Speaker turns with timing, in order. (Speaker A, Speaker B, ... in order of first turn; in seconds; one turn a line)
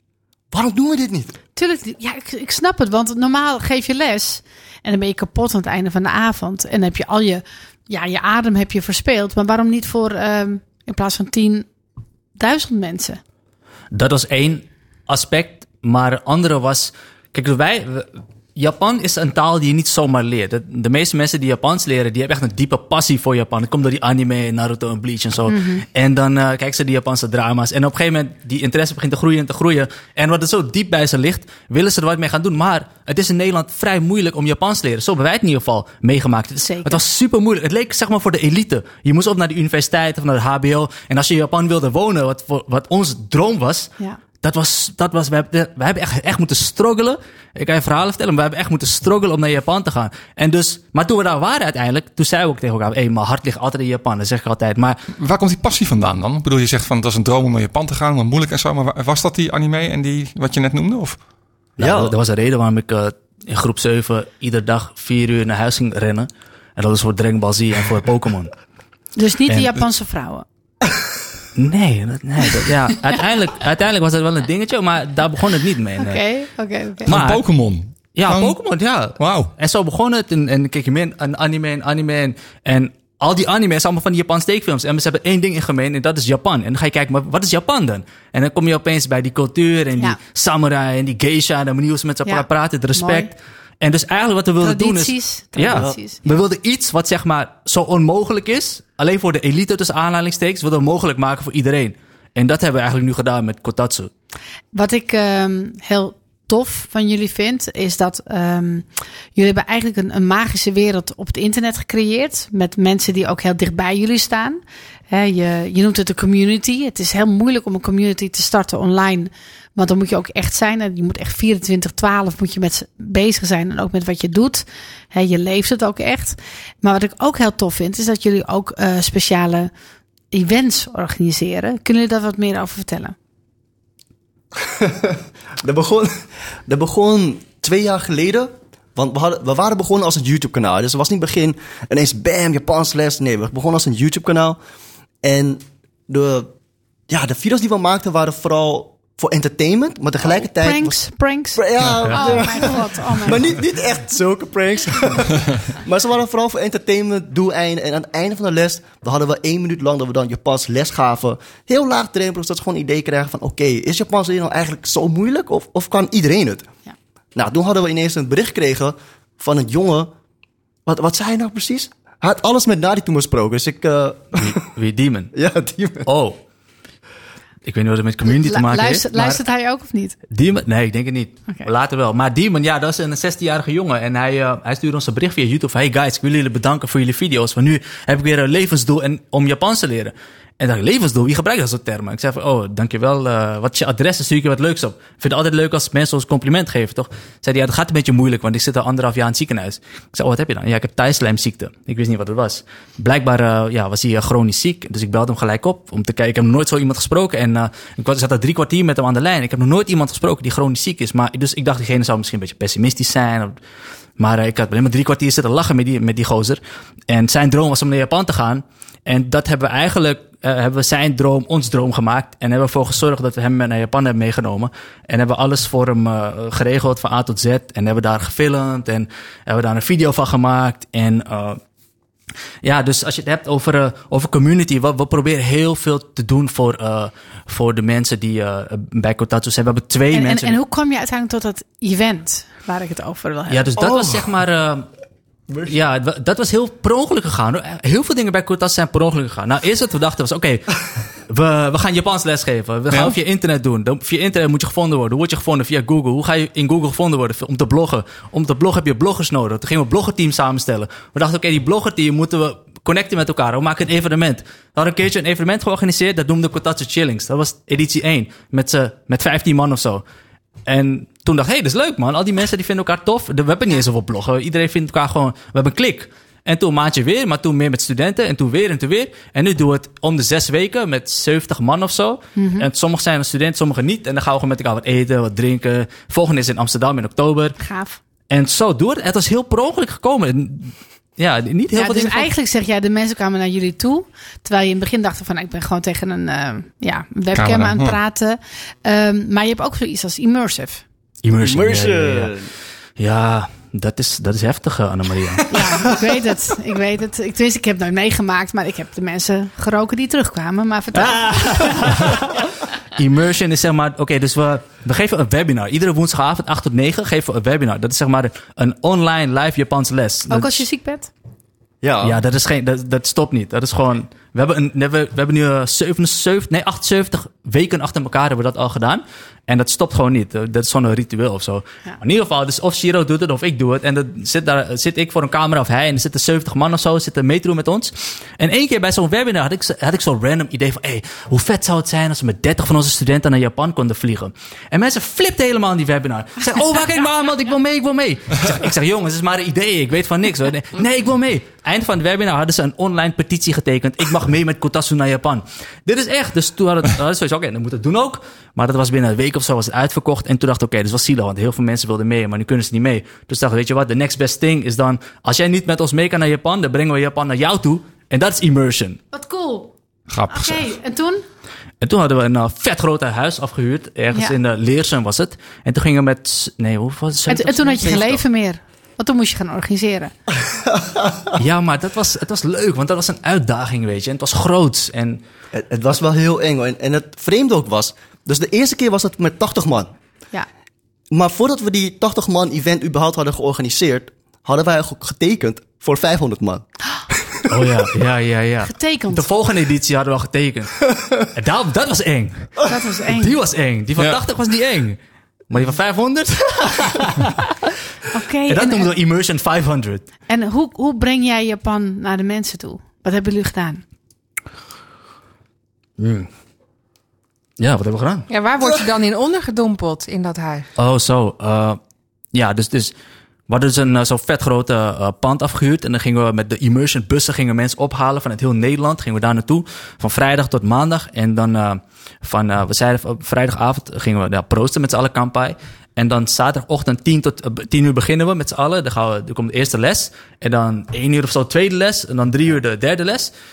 Speaker A: 0.5-1.4
Speaker B: 1.6-11.7
Speaker B: 12.4-13.2
Speaker C: 13.9-55.0
Speaker B: 25.5-25.9
Speaker B: 36.6-37.0
Speaker D: 55.2-61.2
Speaker C: 61.8-68.5
Speaker A: 61.8-62.1
Speaker B: 69.2-70.5
Speaker C: 71.5-76.2
Speaker B: 76.0-77.1
Speaker C: 77.1-77.4
Speaker D: 77.1-78.7
Speaker C: 78.1-104.1
Speaker D: 79.2-79.5
Speaker B: 92.3-93.3
Speaker B: 94.6-96.2
Speaker B: 104.7-129.7
Speaker B: 130.3-133.1
Speaker A: 134.6-136.1
Speaker A: 136.7-144.6
Speaker A: 145.2-146.5
Speaker A: 147.1-166.7
Speaker B: 150.5-153.6
Speaker D: 151.8-152.3
Speaker A: 167.3-170.1
Speaker A: 170.9-174.6
Speaker C: 174.4-175.3
Speaker A: 175.3-176.1
Speaker C: 176.1-176.4
Speaker C: 177.7-179.4
Speaker B: 178.3-180.2
Speaker C: 180.3-213.6
Speaker C: 214.2-231.6
Speaker C: 232.6-240.6
Speaker B: 240.1-243.7
Speaker C: 243.5-244.9
Speaker A: 243.8-244.1
Speaker C: 245.6-270.0
Speaker D: 252.9-253.2
Speaker C: 270.7-287.6
Speaker B: 282.4-282.7
Speaker B: 287.6-288.0
Speaker C: 288.3-292.3
Speaker B: 291.7-300.8
Speaker D: 297.3-298.0
Speaker C: 301.2-302.3
Speaker A: 301.4-302.5
Speaker C: 303.0-305.6
Speaker B: 305.5-312.2
Speaker C: 310.9-312.3
Speaker C: 312.9-320.6
Speaker B: 320.3-321.1
Speaker A: 321.8-322.2
Speaker C: 322.0-369.0
Speaker B: 369.1-369.7
Speaker D: 370.1-370.7
Speaker B: 370.3-371.2
Speaker C: 371.8-378.2
Speaker B: 377.3-380.1
Speaker A: 380.4-381.3
Speaker C: 381.4-385.2
Speaker A: 385.5-389.9
Speaker A: 391.1-396.6
Speaker C: 397.5-407.3
Speaker B: 398.6-399.3
Speaker B: 402.6-403.4
Speaker B: 408.1-409.0
Speaker C: 408.5-410.1
Speaker B: 410.3-413.8
Speaker C: 416.0-416.3
Speaker C: 417.6-418.3
Speaker E: 418.3-420.7
Speaker C: 420.8-421.8
Speaker C: 422.3-422.9
Speaker C: 423.5-443.3